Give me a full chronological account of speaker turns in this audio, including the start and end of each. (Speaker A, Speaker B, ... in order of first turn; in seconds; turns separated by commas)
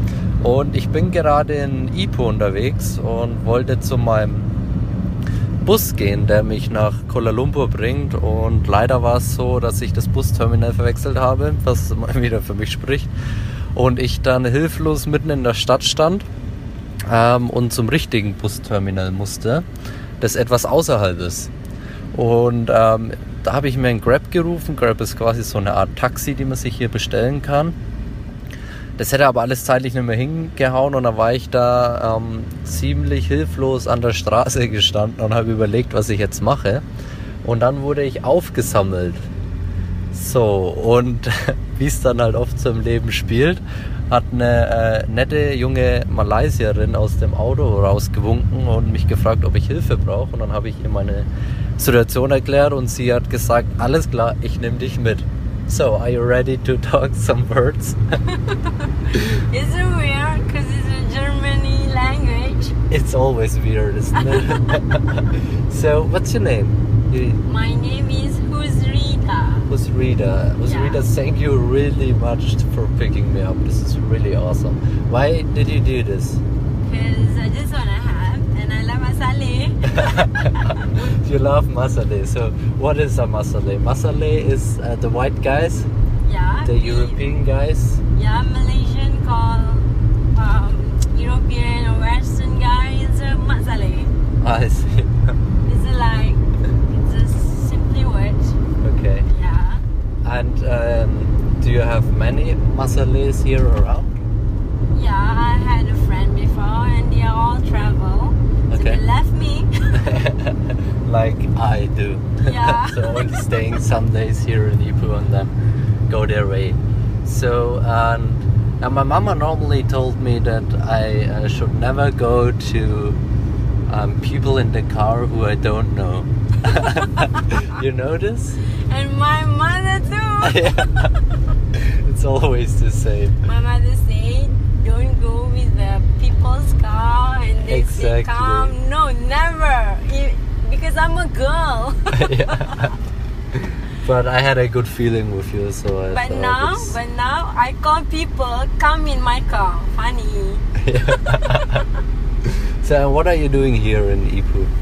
Speaker A: 0.4-4.5, Speaker A: 5.6-13.1, Speaker A: 13.8-16.3, Speaker A: 17.1-19.7, Speaker A: 20.2-21.5, Speaker A: 22.1-27.8, Speaker A: 29.0-36.8, Speaker A: 37.5-39.3, Speaker A: 40.1-58.0, Speaker B: 58.3-62.8, Speaker A: 62.9-67.4, Speaker B: 64.2-64.8, Speaker B: 67.4-69.7, Speaker A: 69.7-76.4, Speaker B: 70.7-71.0, Speaker B: 76.8-80.8, Speaker A: 79.9-85.9, Speaker B: 86.2-87.3, Speaker A: 86.7-88.0, Speaker B: 88.1-94.1, Speaker A: 94.4-95.4, Speaker B: 95.7-98.6, Speaker A: 98.8-99.3, Speaker B: 99.3-99.8, Speaker A: 100.2-104.2, Speaker B: 104.9-110.0, Speaker A: 108.7-109.0, Speaker A: 109.9-115.5, Speaker B: 112.4-113.4, Speaker A: 116.1-123.2, Speaker A: 123.9-128.6, Speaker B: 126.7-127.1, Speaker B: 128.9-131.1, Speaker A: 130.4-131.1, Speaker A: 131.8-133.4, Speaker B: 133.4-142.9, Speaker A: 137.7-138.7, Speaker A: 142.1-142.9, Speaker A: 143.6-147.0, Speaker B: 146.1-150.7, Speaker A: 150.8-151.8, Speaker A: 152.5-154.7